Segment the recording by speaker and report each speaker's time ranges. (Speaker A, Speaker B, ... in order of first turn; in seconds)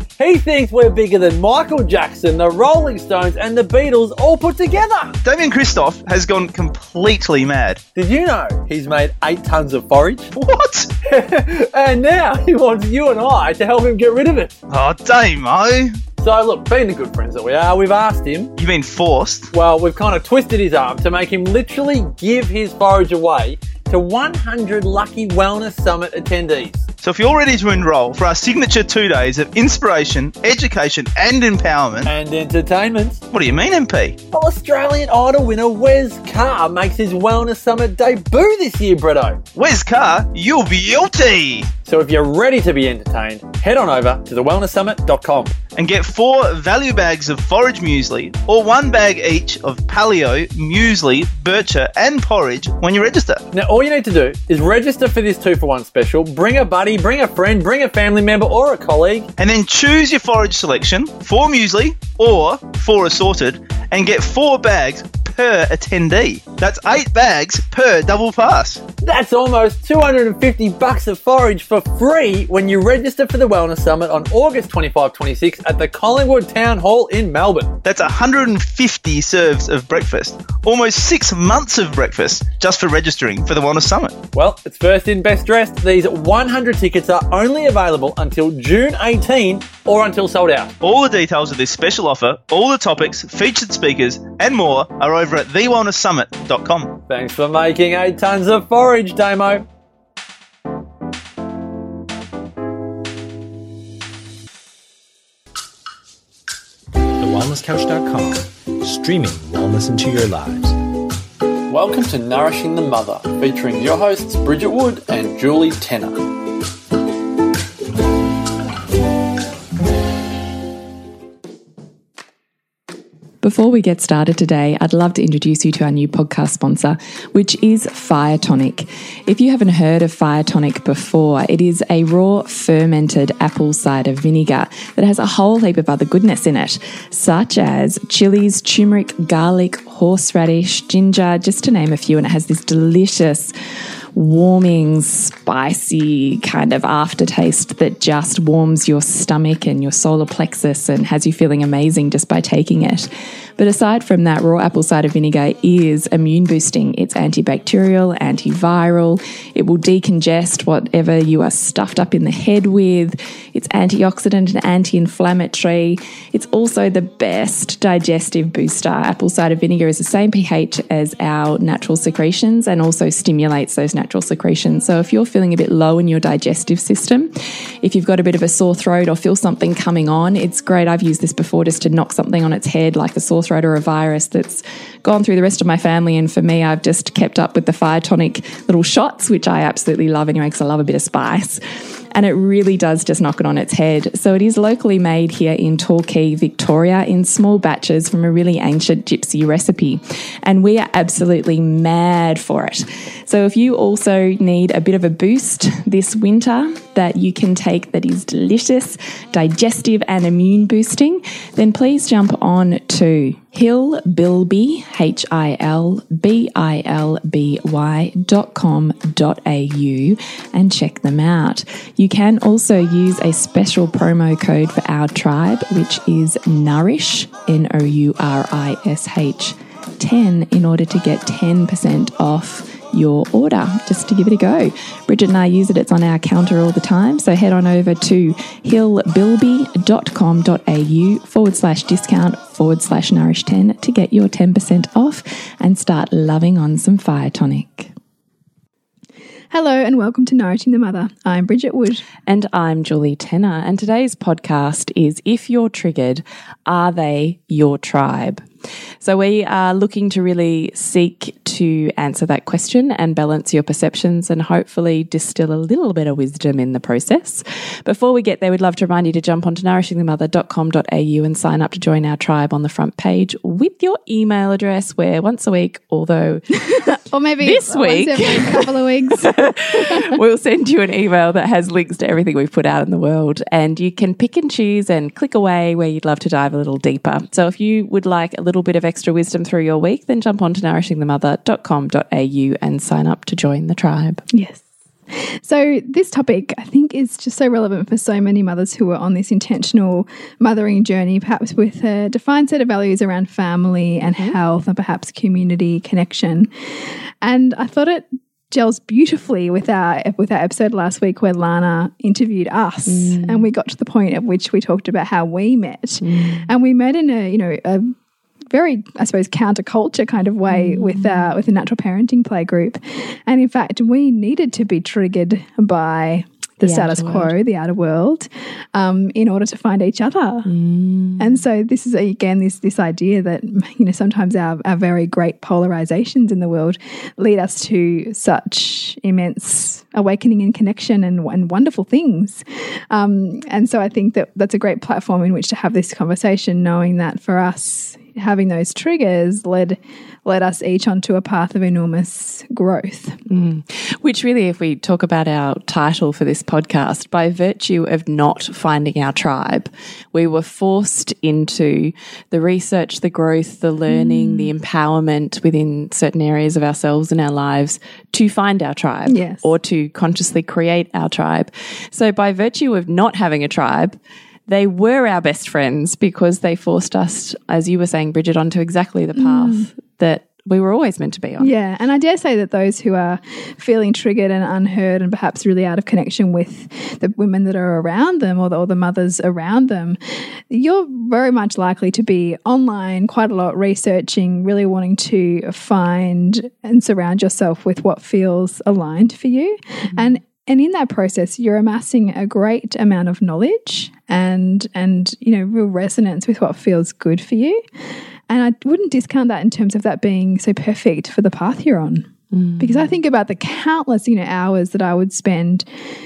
Speaker A: 0.2-5.2, 7.9-10.3, 11.0-14.5, 16.2-18.5, 19.5-26.8, 32.0-33.2, 34.3-39.4, 41.8-45.5, 53.5-59.3, 69.0-77.7, 84.3-90.7, 97.1-99.7, 111.7-116.3
Speaker B: 5.2-7.8, 10.3-10.9, 14.7-16.0, 18.6-19.5, 27.0-32.1, 33.3-34.2, 39.5-41.7, 45.8-53.4, 59.4-68.8, 77.8-84.1, 90.8-96.9
Speaker C: 107.2-110.8
Speaker D: 123.4-143.5, 144.1-247.9, 252.2-258.4, 259.0-294.2, 304.0-304.4, 312.9-313.5, 316.0-316.5, 320.5-321.3, 326.6-327.3, 330.4-331.4, 353.2-381.5, 412.3-412.9
Speaker E: 249.5-252.0, 277.1-280.1, 294.3-306.5, 307.2-317.9, 318.5-330.5, 331.2-353.2, 363.9-364.5, 369.1-369.5, 379.1-379.7, 381.4-390.0, 390.5-407.6, 408.3-415.6